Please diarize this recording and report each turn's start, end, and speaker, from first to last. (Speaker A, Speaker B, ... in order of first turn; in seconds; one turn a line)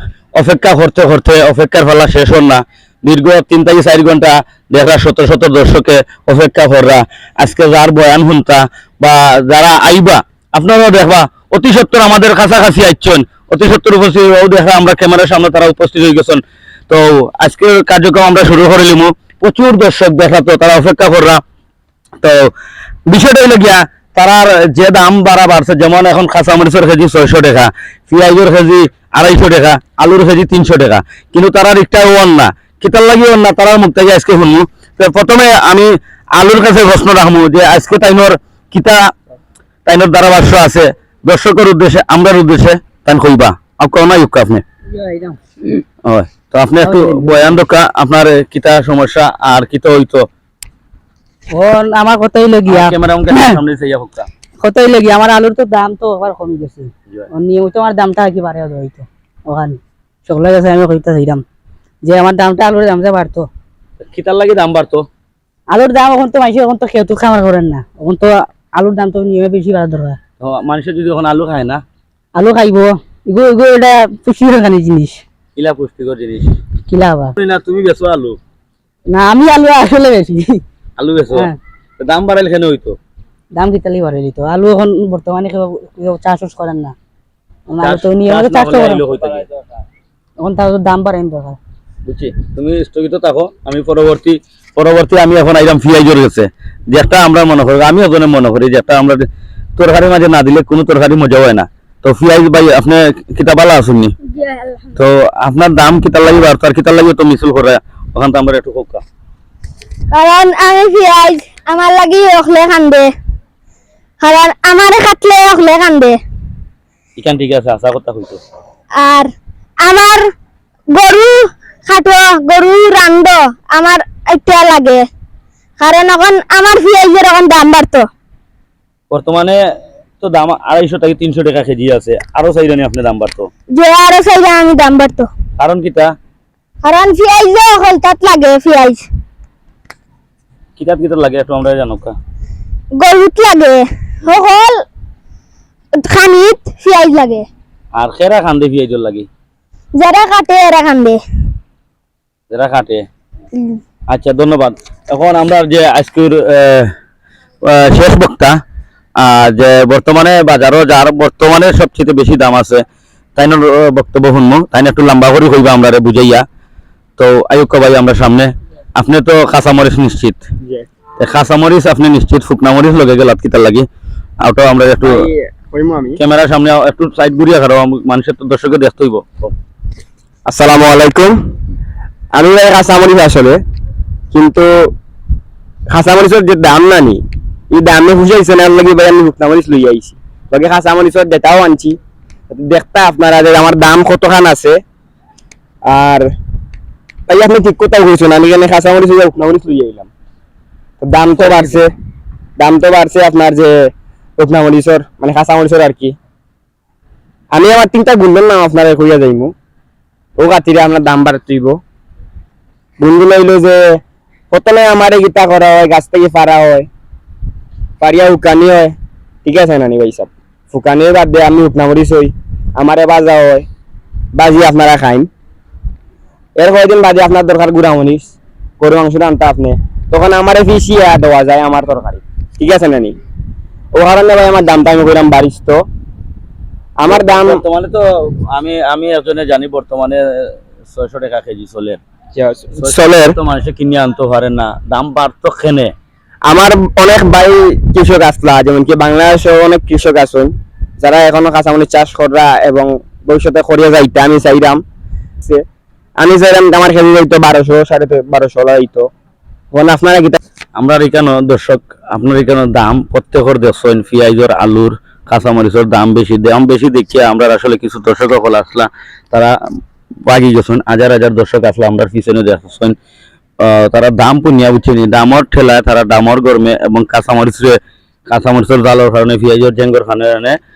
Speaker A: 0.3-21.4
Speaker A: 22.2-22.5
Speaker A: 23.1-39.1
Speaker A: 39.9-44.6
Speaker B: 44.9-45.4
Speaker A: 46.0-50.3
Speaker B: 46.8-47.5
Speaker B: 51.5-53.6
Speaker A: 52.7-54.3
Speaker B: 54.6-61.4
Speaker B: 62.0-63.5
Speaker A: 64.0-65.0
Speaker B: 65.7-70.2
Speaker A: 70.4-71.8
Speaker B: 72.3-75.2
Speaker A: 75.5-76.6
Speaker B: 76.9-77.3
Speaker A: 77.4-78.4
Speaker B: 79.1-80.6
Speaker A: 81.0-81.5
Speaker A: 82.0-83.0
Speaker B: 83.5-86.9
Speaker B: 87.7-89.0
Speaker A: 87.8-89.5
Speaker B: 90.4-91.6
Speaker A: 92.0-104.1
Speaker C: 104.3-104.9
Speaker A: 105.0-109.0
Speaker C: 110.1-113.1
Speaker C: 114.2-116.2
Speaker A: 117.2-118.4
Speaker C: 118.9-119.3
Speaker C: 119.8-120.2
Speaker C: 120.9-125.0
Speaker C: 125.8-128.1
Speaker A: 129.1-129.6
Speaker A: 130.2-133.5
Speaker C: 133.7-135.3
Speaker A: 135.6-136.1
Speaker C: 136.8-139.0
Speaker A: 140.8-142.1
Speaker C: 143.0-144.8
Speaker C: 146.0-147.5
Speaker A: 147.9-149.3
Speaker C: 149.9-151.2
Speaker A: 152.5-153.1
Speaker C: 153.5-153.8
Speaker A: 154.1-156.9
Speaker A: 157.6-158.5
Speaker A: 159.2-162.8
Speaker A: 163.4-166.4
Speaker A: 167.2-170.4
Speaker A: 171.2-173.8
Speaker A: 174.4-175.3
Speaker D: 175.0-176.2
Speaker A: 176.2-179.5
Speaker D: 180.5-181.3
Speaker D: 182.3-183.6
Speaker D: 184.3-184.7
Speaker D: 185.9-187.2
Speaker D: 187.7-192.0
Speaker D: 192.5-194.8
Speaker D: 195.9-196.3
Speaker D: 197.3-200.1
Speaker D: 201.0-201.9
Speaker A: 201.4-201.8
Speaker D: 202.6-206.2
Speaker D: 207.5-209.5
Speaker D: 210.4-211.8
Speaker D: 213.0-214.0
Speaker D: 214.5-216.9
Speaker D: 218.0-218.9
Speaker D: 219.4-223.7
Speaker D: 224.3-225.3
Speaker D: 226.6-233.1
Speaker D: 233.9-235.8
Speaker D: 237.0-237.6
Speaker A: 237.1-242.0
Speaker D: 242.3-243.4
Speaker A: 242.8-245.9
Speaker D: 246.5-254.8
Speaker D: 256.2-259.1
Speaker D: 259.7-260.4
Speaker A: 260.8-269.5
Speaker A: 270.2-272.9
Speaker A: 273.6-280.6